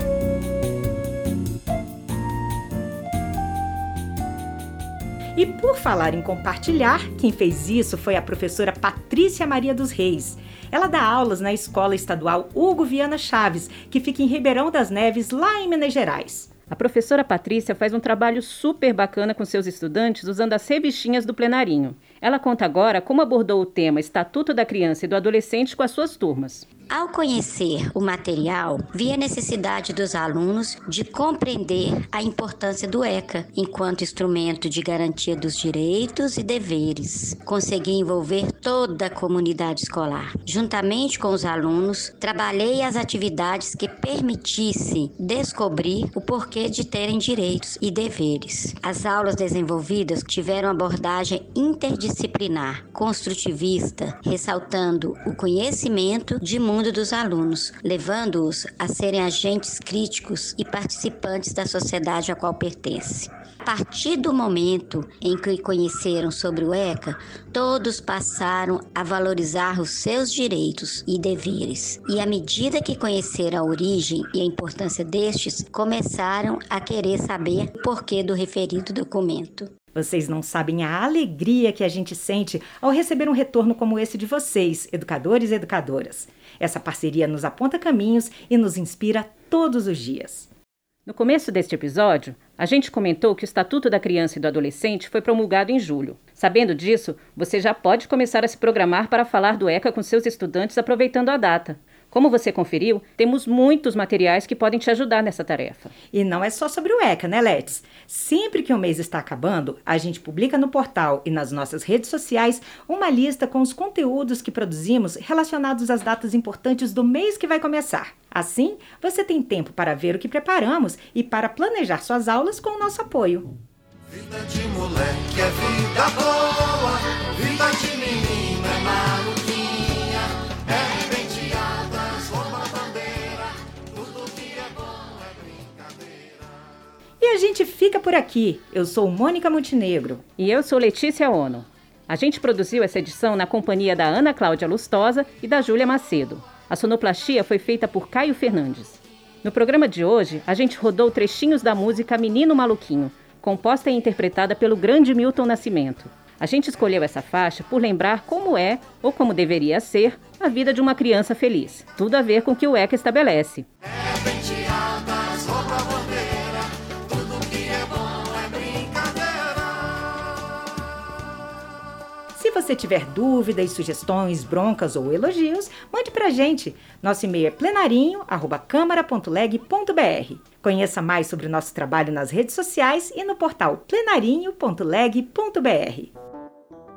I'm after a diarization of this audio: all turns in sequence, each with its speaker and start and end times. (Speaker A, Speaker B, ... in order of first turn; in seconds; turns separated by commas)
Speaker A: 5.4-16.5, Speaker B: 16.7-26.7, Speaker C: 26.9-79.7, Speaker A: 80.0-90.5, Speaker B: 91.1-105.9, Speaker A: 106.1-123.5, Speaker D: 124.1-136.2, Speaker A: 137.2-140.2, Speaker B: 140.4-163.7, Speaker D: 164.1-169.4, Speaker A: 172.4-186.1